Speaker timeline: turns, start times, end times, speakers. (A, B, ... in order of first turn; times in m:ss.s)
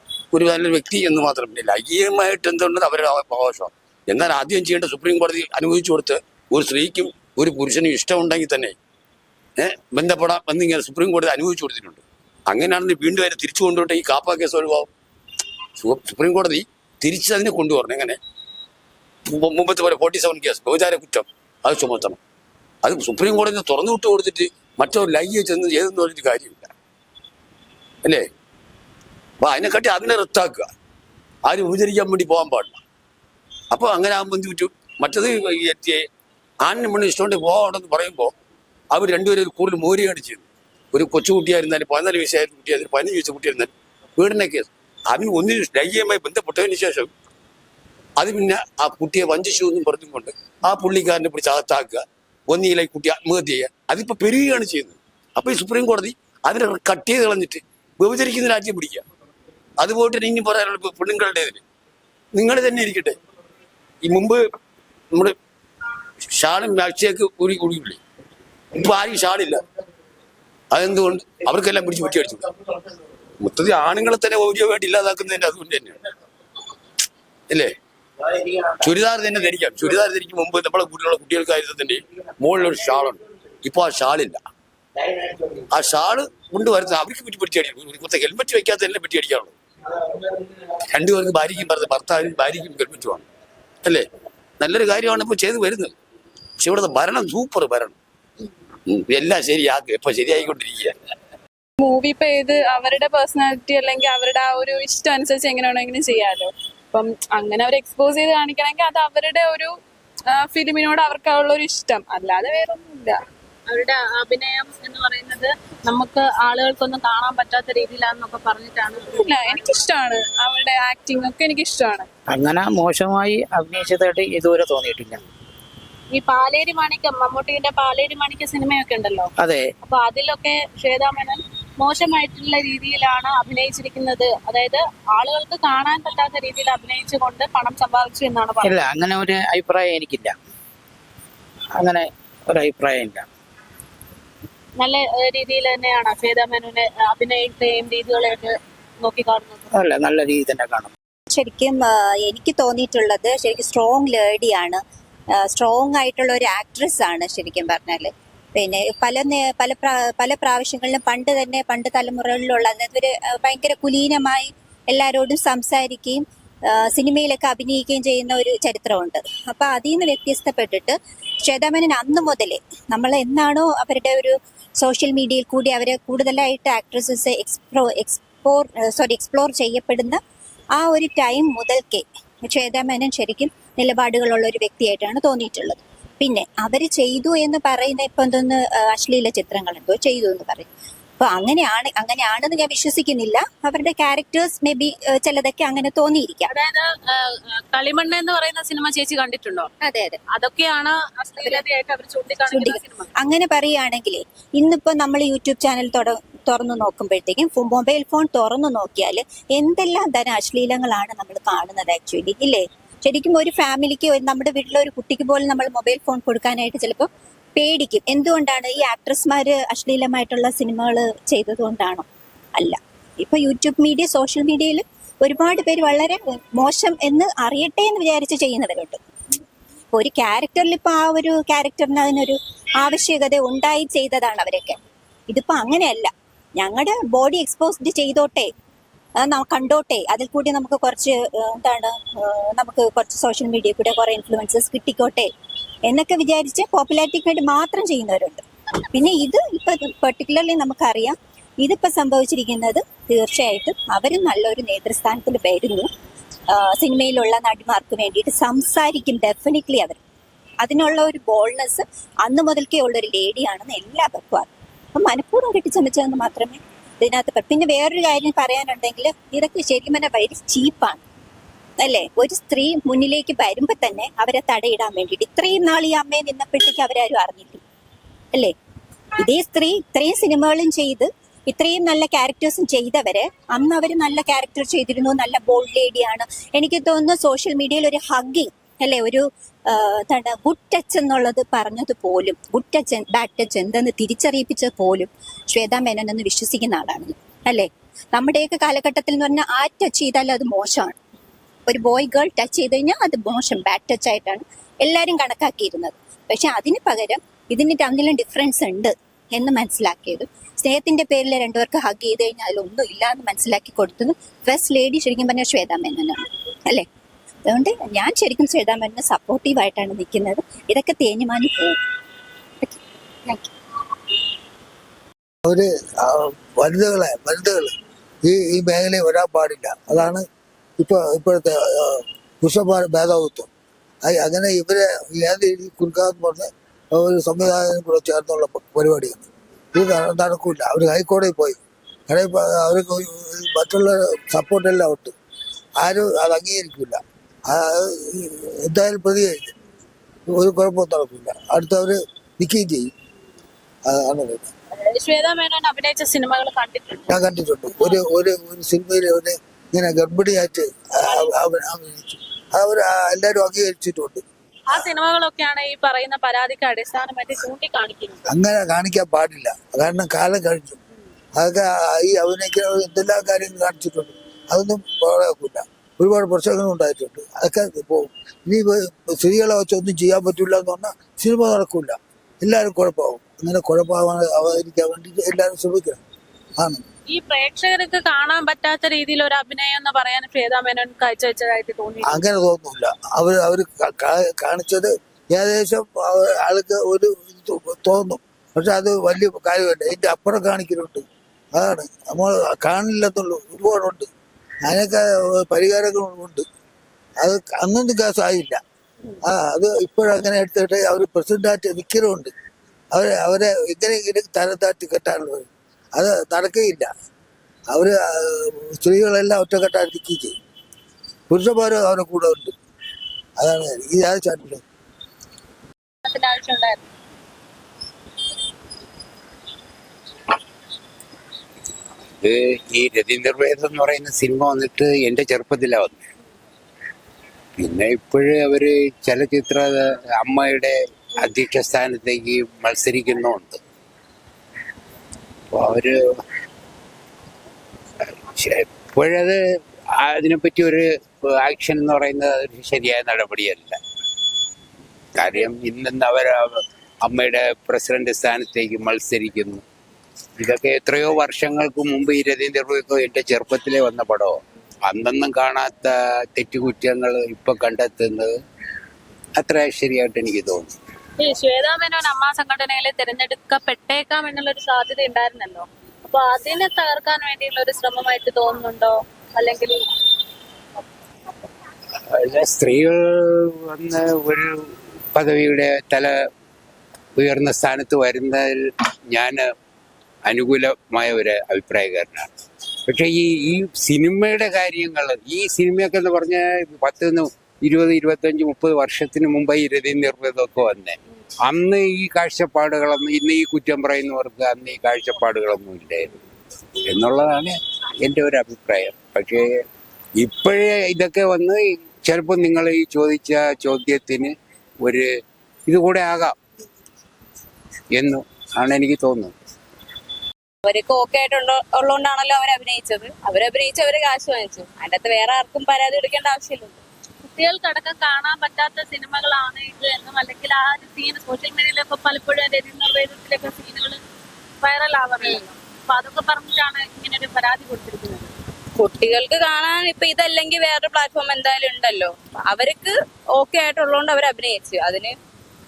0:00.3-0:08.8 A
0:09.6-0:14.9 A
0:15.8-0:18.2 A
0:19.3-0:22.2 A
0:22.8-0:26.7 A
0:29.4-0:30.7 A
0:31.5-0:32.8 A
0:33.7-0:36.0 A
0:36.6-0:38.3 A
0:38.9-0:47.1 A
0:48.2-0:59.1 A
0:59.8-1:01.6 A
1:02.4-1:03.2 A
1:04.1-1:04.4 A
1:06.3-1:08.0 A
1:08.8-1:09.6 A
1:10.7-1:12.4 A
1:13.4-1:16.0 A
1:18.8-1:24.4 A
1:25.7-1:29.6 A
1:30.9-1:33.3 A
1:34.6-1:35.9 A
1:36.6-1:38.0 A
1:38.9-1:41.1 A
1:41.8-1:49.8 B
1:50.3-1:53.2 B
1:53.7-1:59.9 C
1:59.2-2:02.0 B
2:02.3-2:05.2 D
2:06.1-2:09.3 C
2:09.8-2:18.8 C
2:18.7-2:20.4 D
2:21.8-2:23.2 D
2:24.8-2:29.6 C
2:29.8-2:30.9 D
2:31.3-2:34.8 E
2:35.4-3:00.2 E
3:00.8-3:10.7 E
3:11.2-3:16.5 E
3:16.5-3:19.7 C
3:19.8-3:20.2 E
3:20.3-3:23.1 C
3:22.5-3:49.0 E
3:49.9-3:58.5 E
3:59.2-4:05.3 E
4:05.9-4:15.9 E
4:16.5-4:20.0 E
4:20.6-4:31.0 E
4:31.8-4:37.6 E
4:39.2-5:01.0 E
5:01.7-5:16.9 E
5:17.5-5:21.7 E
5:25.4-5:27.7 F
5:28.2-5:30.2 F
5:30.8-5:33.5 F
5:34.0-5:39.2 F
5:39.8-5:45.1 F
5:45.8-5:47.0 F
5:47.5-5:49.5 F
5:50.3-5:52.9 F
5:53.9-5:54.5 F
5:54.9-5:57.0 C
5:57.1-6:04.2 F
6:01.1-6:01.3 C
6:04.7-6:08.2 C
6:08.3-6:10.8 F
6:11.4-6:26.0 F
6:26.6-6:26.8 F
6:27.1-6:32.2 C
6:32.1-6:41.0 F
6:41.6-6:44.1 F
6:44.7-6:46.4 F
6:47.2-6:48.6 F
6:49.2-6:52.3 F
6:52.9-6:56.9 F
6:57.7-7:00.4 F
7:01.3-7:02.5 F
7:03.4-7:04.6 F
7:06.0-7:06.9 C
7:12.2-7:16.0 G
7:17.6-7:23.6 G
7:25.5-7:26.0 G
7:28.4-7:29.4 G
7:30.0-7:33.8 G
7:35.2-7:39.6 G
7:40.4-7:48.3 G
7:49.4-7:50.7 G
7:51.2-7:59.8 C
8:02.1-8:04.6 G
8:05.2-8:06.2 G
8:07.2-8:09.5 G
8:10.3-8:12.3 G
8:12.9-8:26.2 G
8:26.9-8:29.5 G
8:30.2-8:35.1 G
8:35.7-8:36.4 G
8:37.9-8:39.3 G
8:40.6-8:46.8 H
8:47.3-8:54.0 C
8:54.6-8:58.3 C
8:58.8-9:05.2 H